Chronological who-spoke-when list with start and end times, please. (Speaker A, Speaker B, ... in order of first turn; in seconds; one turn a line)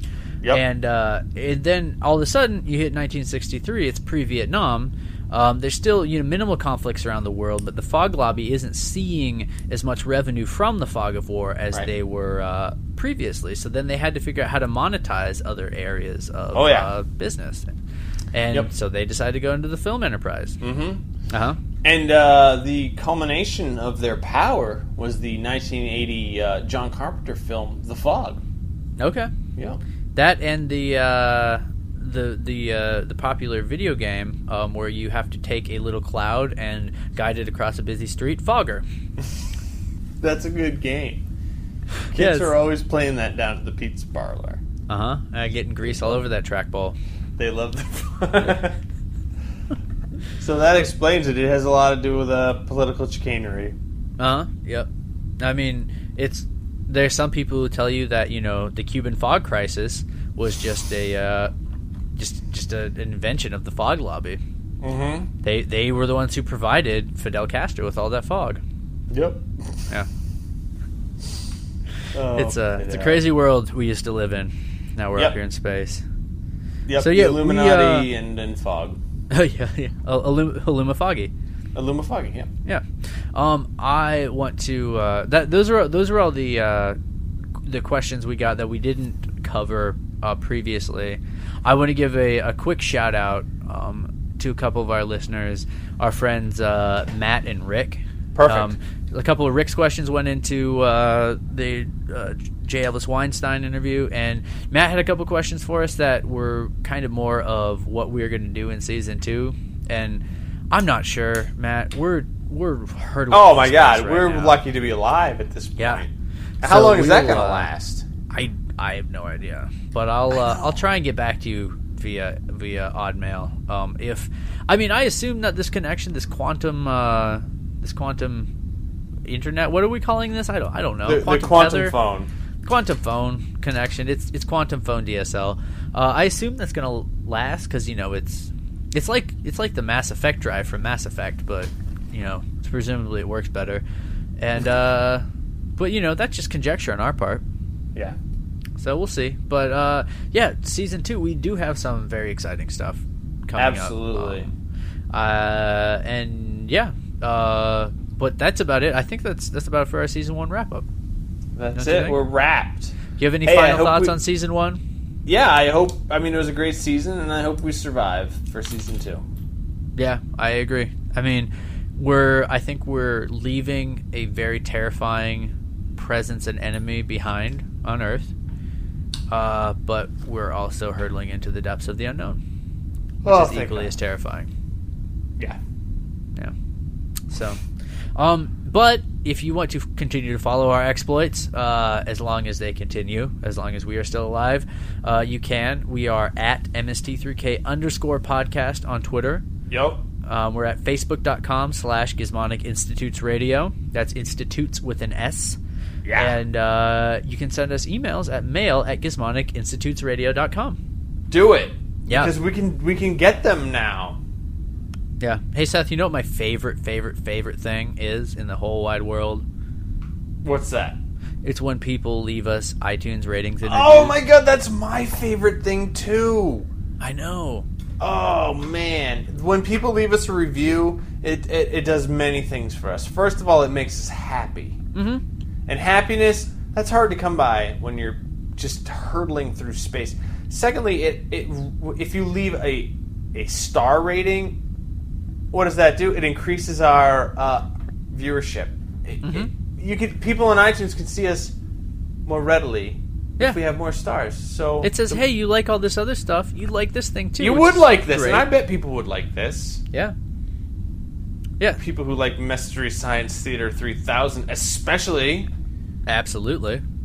Speaker A: 0.5-17.7
Speaker B: 16.5-16.9
Speaker A: 18.3-20.6
Speaker B: 20.6-21.0
Speaker A: 21.3-21.6
Speaker B: 21.8-28.4
Speaker A: 29.0-29.3
Speaker A: 30.1-38.8
Speaker B: 40.2-41.2
Speaker B: 42.1-44.6
Speaker A: 42.1-42.5
Speaker A: 44.9-47.0
Speaker B: 47.4-48.8
Speaker B: 50.4-53.7
Speaker A: 54.2-54.9
Speaker A: 55.4-61.5
Speaker A: 62.2-64.4
Speaker B: 64.8-65.3
Speaker A: 65.4-68.6
Speaker B: 69.1-69.4
Speaker B: 72.1-73.2
Speaker A: 72.3-76.0
Speaker B: 76.8-79.0
Speaker A: 77.0-78.1
Speaker A: 79.3-81.3
Speaker B: 81.7-82.5
Speaker A: 82.7-87.0
Speaker A: 87.6-114.6
Speaker B: 98.3-98.7
Speaker B: 113.3-116.1
Speaker A: 115.8-116.0
Speaker B: 116.6-118.1
Speaker A: 116.6-117.7
Speaker A: 118.3-128.5
Speaker B: 120.4-120.6
Speaker A: 129.2-131.9
Speaker B: 131.0-132.3
Speaker A: 132.6-143.8
Speaker A: 144.4-145.2
Speaker A: 145.8-147.4
Speaker A: 148.8-154.5
Speaker B: 153.6-154.5
Speaker A: 155.1-160.9
Speaker B: 161.6-164.2
Speaker A: 161.8-162.2
Speaker A: 163.2-164.8
Speaker B: 165.2-169.2
Speaker A: 169.9-178.3
Speaker A: 179.3-182.4
Speaker A: 183.2-184.5
Speaker B: 183.2-183.9
Speaker A: 187.3-187.6
Speaker A: 188.2-199.4
Speaker B: 199.7-200.0
Speaker A: 200.2-205.6
Speaker B: 206.0-206.3
Speaker A: 206.2-210.8
Speaker B: 211.3-214.2
Speaker A: 212.1-212.3
Speaker A: 215.2-219.4
Speaker B: 220.4-221.0
Speaker A: 221.4-224.2
Speaker B: 223.6-226.7
Speaker A: 227.0-227.7
Speaker B: 228.0-234.8
Speaker A: 234.9-235.2
Speaker B: 235.7-244.6
Speaker B: 245.5-251.5
Speaker A: 249.2-249.5
Speaker B: 252.2-255.2
Speaker A: 254.8-258.5
Speaker B: 257.4-259.8
Speaker B: 261.8-265.5
Speaker A: 266.1-266.8